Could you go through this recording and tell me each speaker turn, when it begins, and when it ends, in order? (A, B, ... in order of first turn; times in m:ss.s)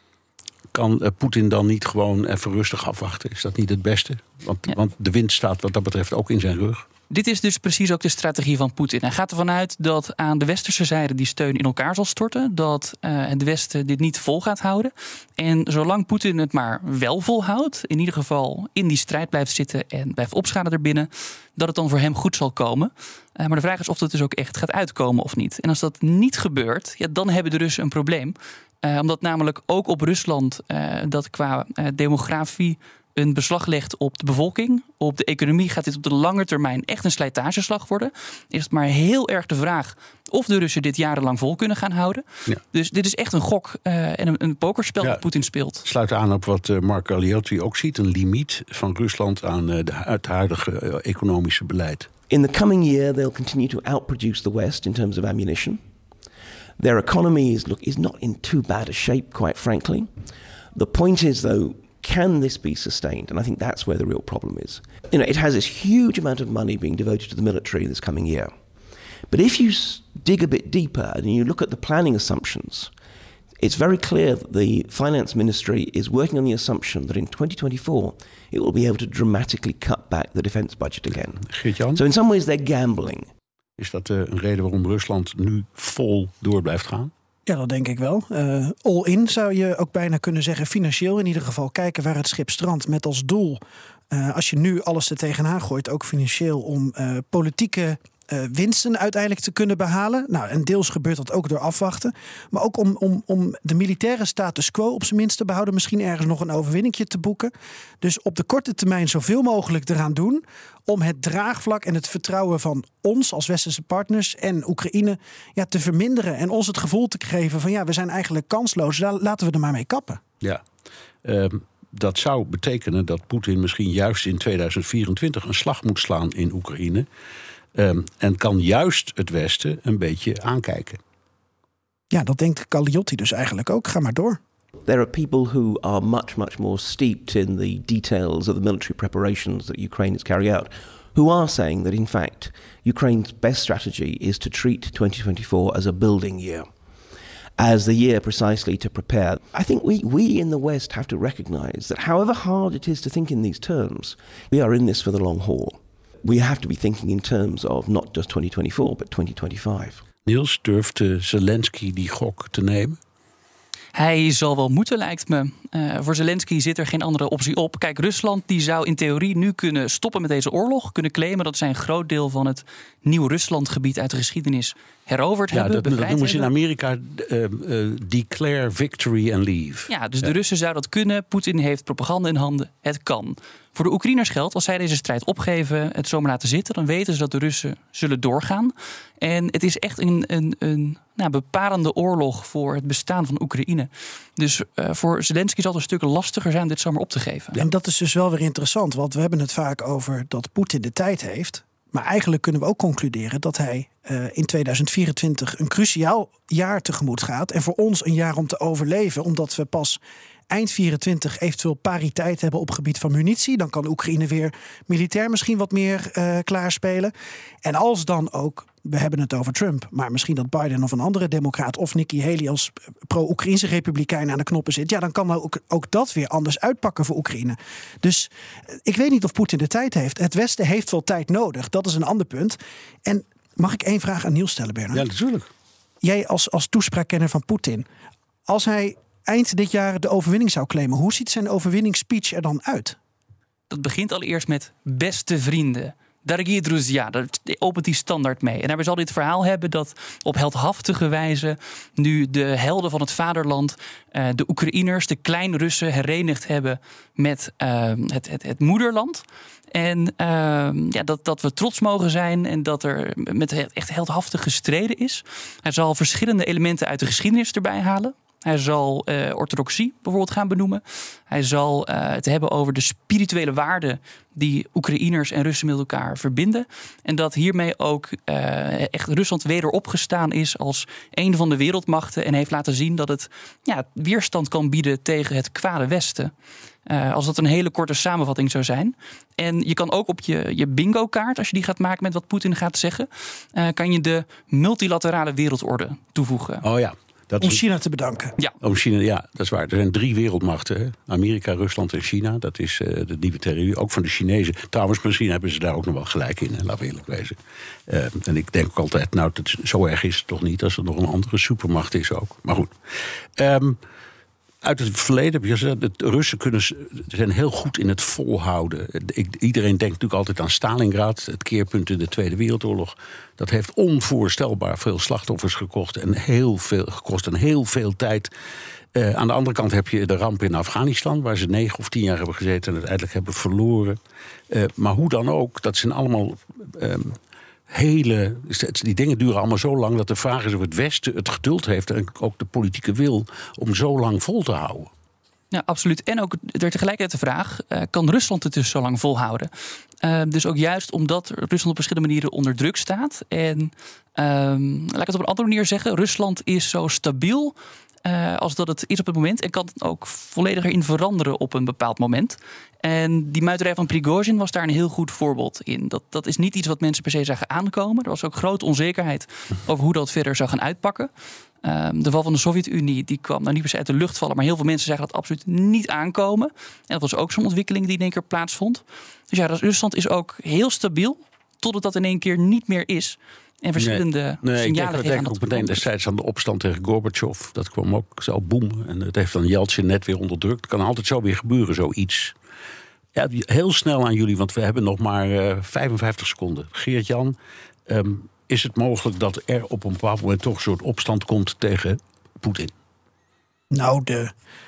0:00.7-0:06.9 A
0:07.1-0:45.8 B
0:45.8-0:52.1 A
0:52.3-0:55.8 C
0:56.8-1:00.1 C
1:00.7-1:08.5 C
1:09.3-1:12.9 C
1:13.6-1:23.3 C
1:21.5-1:22.0 A
1:23.8-1:27.1 A
1:27.5-1:33.6 D
1:34.1-2:00.2 D
2:01.2-2:07.1 A
2:07.8-2:11.0 A
2:12.1-2:14.4 D
2:14.9-2:26.7 C
2:27.6-2:40.0 C
2:40.3-2:43.0 A
2:44.0-2:56.5 B
2:55.5-3:00.3 A
2:59.9-3:17.6 B
3:17.5-3:37.1 D
3:37.6-3:55.0 D
3:54.9-3:55.5 A
3:56.0-3:57.8 D
3:58.5-4:03.0 D
4:03.7-4:46.3 B
4:46.9-4:56.6 B
4:56.6-4:57.6 A
4:57.4-4:58.3 D
4:58.6-5:07.4 A
5:07.9-5:12.7 A
5:13.4-5:13.8 A
5:14.6-5:28.3 A
5:29.0-5:34.0 A
5:34.5-5:37.2 A
5:37.7-5:44.9 A
5:45.5-5:49.5 B
5:50.0-6:11.1 B
6:11.6-6:25.9 B
6:23.8-6:32.3 A
6:33.2-6:37.4 A
6:37.9-6:42.7 A
6:43.7-6:44.3 D